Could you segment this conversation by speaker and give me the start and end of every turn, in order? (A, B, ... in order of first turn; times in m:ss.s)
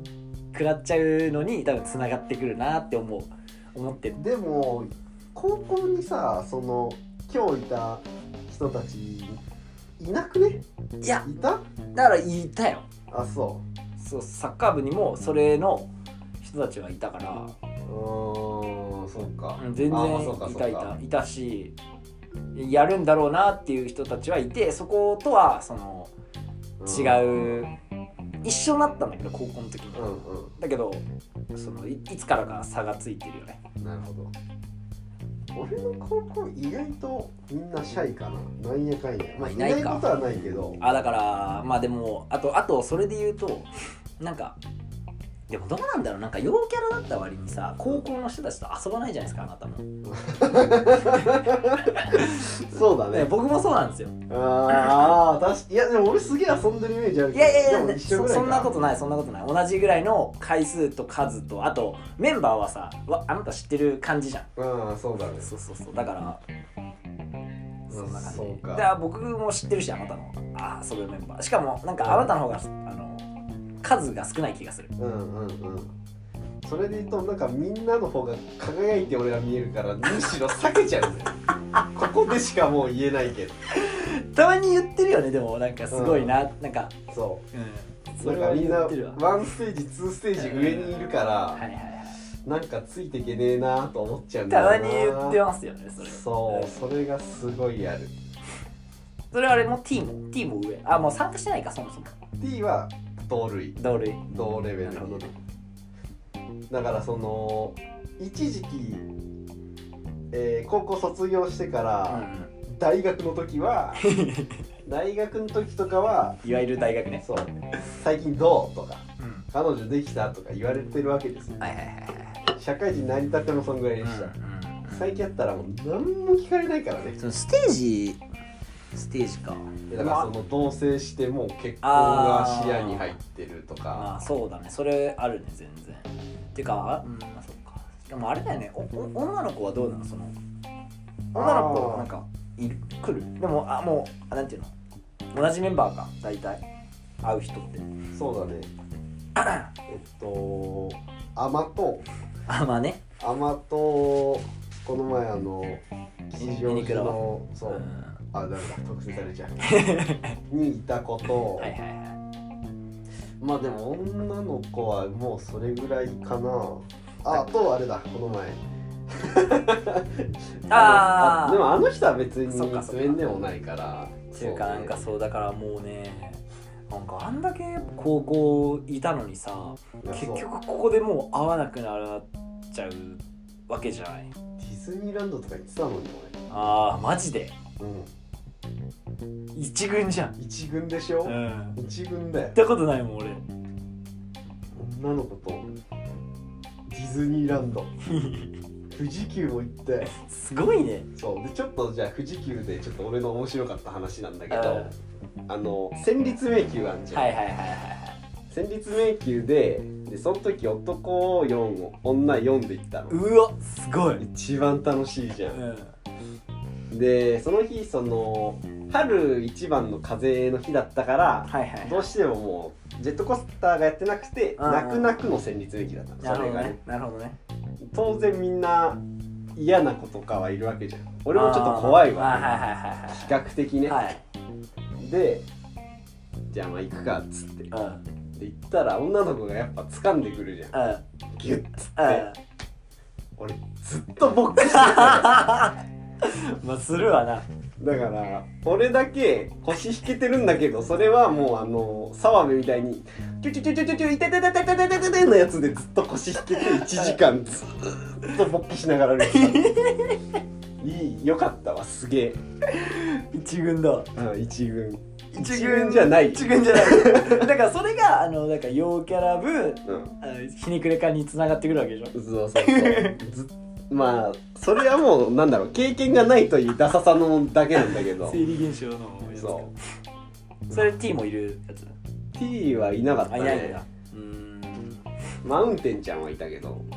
0:00.5-0:04.2 A
0:04.2-0:09.4 B
0:10.0-0:10.6 B
0:11.0-0:11.3 A
0:11.2-0:11.6 B
0:11.9-0:12.8 A
0:13.1-0:13.6 B
0:14.0-0:15.9 A
0:16.4-0:17.5 A
0:17.8-0:20.9 B
0:19.6-0:21.8 A
0:22.5-0:26.1 A
0:26.8-0:27.7 B
0:26.8-0:27.7 A
0:28.4-0:33.6 A
0:29.9-0:30.5 B
0:33.8-0:34.3 B
0:35.6-0:40.8 B
0:39.4-0:40.1 A
0:40.8-0:43.7 A
0:44.2-0:44.6 A
0:45.5-0:49.8 A
0:50.0-0:53.3 B
0:51.1-0:54.1 A
0:54.3-0:58.9 B
0:57.3-1:04.5 A
1:04.6-1:05.5 B
1:05.4-1:06.4 A
1:07.9-1:13.3 A
1:07.9-1:08.9 B
1:12.0-1:12.4 B
1:13.8-1:14.9 A
1:15.0-1:15.9 B
1:16.6-1:23.6 B
1:23.7-1:26.9 A
1:25.9-1:26.4 B
1:27.1-1:27.4 B
1:27.5-1:29.5 A
1:28.2-1:31.6 B
1:30.4-1:32.2 A
1:32.4-1:35.4 B
1:34.5-1:36.7 A
1:36.0-1:38.1 B
1:39.3-1:42.1 A
1:42.4-1:45.3 B
1:43.8-1:44.2 A
1:44.8-1:45.3 A
1:46.7-1:49.1 B
1:50.3-1:54.0 B
1:52.1-1:52.5 A
1:54.0-1:54.6 A
1:54.9-1:56.4 B
1:56.4-1:57.2 A
1:57.2-2:01.6 B
1:59.2-1:59.5 A
2:01.6-2:02.4 A
2:02.6-2:04.3 B
2:04.0-2:05.1 A
2:04.9-2:07.2 B
2:07.2-2:08.2 A
2:08.9-2:10.3 A
2:09.9-2:14.1 B
2:11.8-2:13.2 A
2:13.9-2:20.3 A
2:21.3-2:22.1 B
2:21.4-2:24.7 A
2:25.3-2:26.6 A
2:27.2-2:27.9 A
2:28.1-2:28.7 B
2:29.4-2:29.7 A
2:29.9-2:32.0 B
2:32.5-2:33.0 A
2:33.2-2:39.7 B
2:36.4-2:38.2 A
2:39.6-2:40.4 A
2:40.5-2:41.7 B
2:41.6-2:42.2 A
2:43.4-2:48.6 B
2:49.1-2:55.0 B
2:50.7-2:51.7 A
2:52.5-2:53.2 A
2:54.3-3:04.3 A
3:00.0-3:00.5 B
3:04.6-3:06.3 B
3:06.5-3:07.5 A
3:07.8-3:08.1 B
3:09.5-3:10.3 A
3:10.4-3:12.6 B
3:11.2-3:11.8 A
3:12.5-3:13.4 A
3:14.8-3:15.7 B
3:16.9-3:17.9 B
3:18.1-3:18.5 A
3:18.9-3:20.1 B
3:20.0-3:21.1 A
3:21.2-3:24.9 B
3:24.5-3:24.9 A
3:25.5-3:27.4 B
3:27.1-3:28.2 A
3:28.5-3:33.2 B
3:33.1-3:34.2 A
3:34.2-3:35.6 B
3:35.5-3:35.9 A
3:36.9-3:46.8 B
3:41.5-3:42.1 A
3:44.6-3:45.3 A
3:46.2-3:47.4 A
3:47.9-3:49.0 B
3:49.6-3:52.5 B
3:51.3-3:53.4 A
3:53.1-3:54.0 B
3:53.9-3:54.2 A
3:55.0-3:55.5 B
3:56.5-3:57.7 B
3:57.7-3:58.0 A
3:58.4-4:00.7 B
4:00.7-4:01.0 A
4:01.4-4:02.3 B
4:02.0-4:02.4 A
4:03.4-4:05.6 B
4:04.5-4:07.4 A
4:07.8-4:19.7 B
4:16.5-4:17.2 A
4:19.2-4:20.4 A
4:20.8-4:22.4 B
4:22.7-4:24.1 A
4:24.2-4:27.5 B
4:25.3-4:33.2 A
4:29.8-4:30.1 B
4:32.1-4:38.4 B
4:38.1-4:39.8 A
4:39.3-4:39.7 B
4:40.7-4:41.9 A
4:42.4-4:43.8 B
4:43.3-4:45.0 A
4:45.4-4:46.9 B